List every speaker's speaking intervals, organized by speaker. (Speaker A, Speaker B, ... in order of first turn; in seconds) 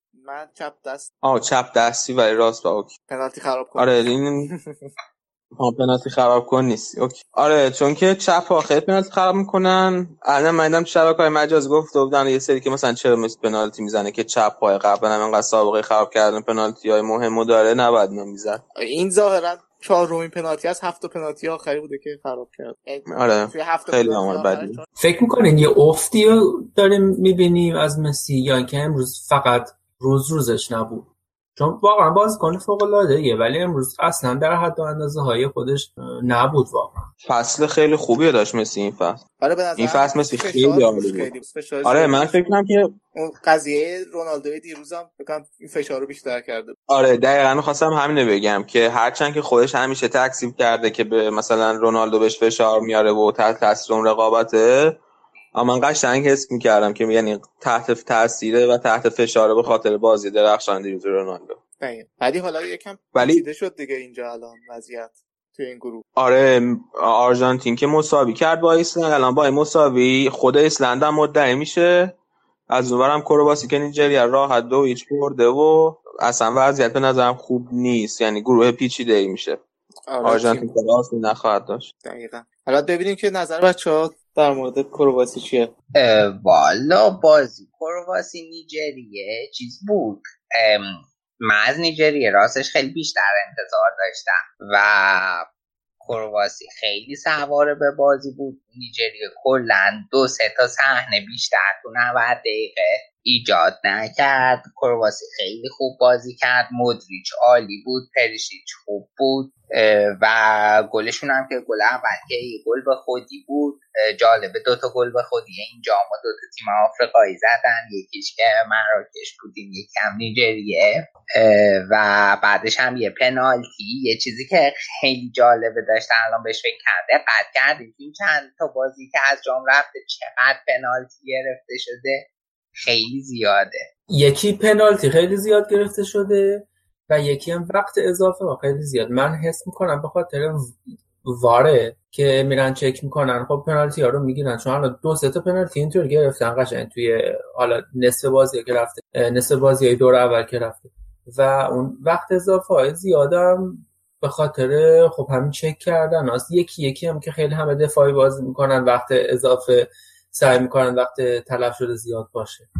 Speaker A: 0.1-1.1, 3.1-4.8, 18.8-24.9, 39.4-42.5, 43.1-46.8, 61.8-66.0, 80.1-80.7, 82.0-85.7
Speaker B: 1.2-2.9, 3.8-4.5, 5.6-18.6, 23.1-24.8, 37.3-39.2, 39.8-41.3, 41.8-42.9, 46.9-55.0, 55.5-61.6, 63.1-63.5, 66.2-72.2, 72.7-79.6, 80.2-81.9
Speaker C: 25.0-37.0, 134.1-162.7
Speaker D: 86.0-95.5, 96.0-133.9